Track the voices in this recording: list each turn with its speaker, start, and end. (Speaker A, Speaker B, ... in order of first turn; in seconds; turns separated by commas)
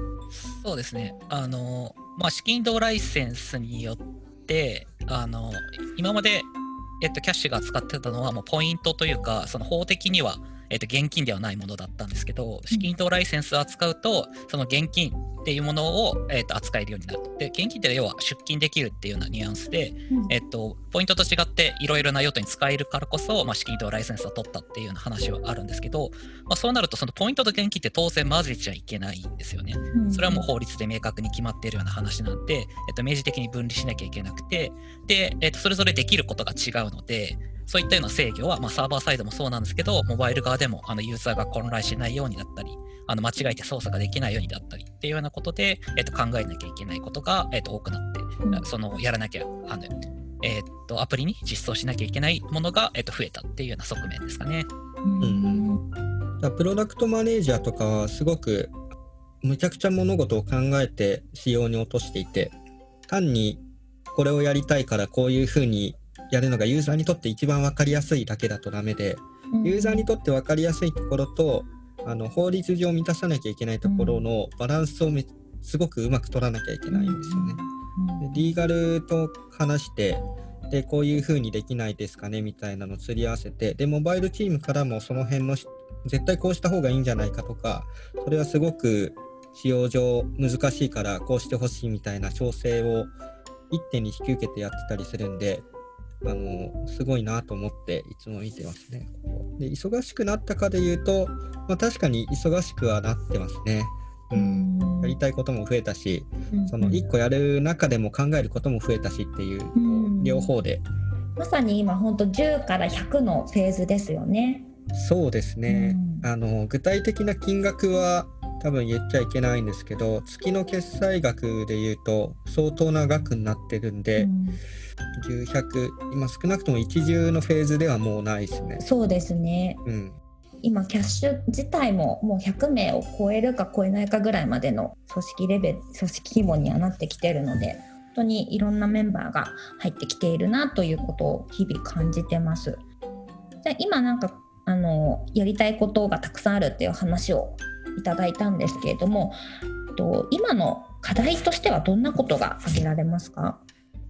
Speaker A: 0.3-54.7, Speaker B: 29.9-30.5, Speaker B: 55.0-55.8, Speaker C: 55.2-55.7, Speaker C: 56.4-58.7, Speaker C: 59.4-62.5, Speaker C: 63.1-77.6, Speaker B: 69.5-70.1, Speaker B: 73.8-74.2, Speaker B: 76.9-78.5, Speaker C: 78.2-93.1, Speaker C: 93.7-95.7, Speaker C: 96.2-110.8, Speaker B: 104.3-105.2, Speaker B: 106.5-107.1, Speaker B: 109.8-110.5, Speaker B: 111.4-114.7, Speaker C: 114.9-124.3, Speaker B: 115.7-116.3, Speaker B: 124.2-124.6, Speaker C: 125.2-128.8, Speaker B: 128.8-129.8, Speaker C: 129.8-130.2, Speaker B: 130.6-142.8, Speaker B: 143.6-149.4, Speaker B: 149.9-153.6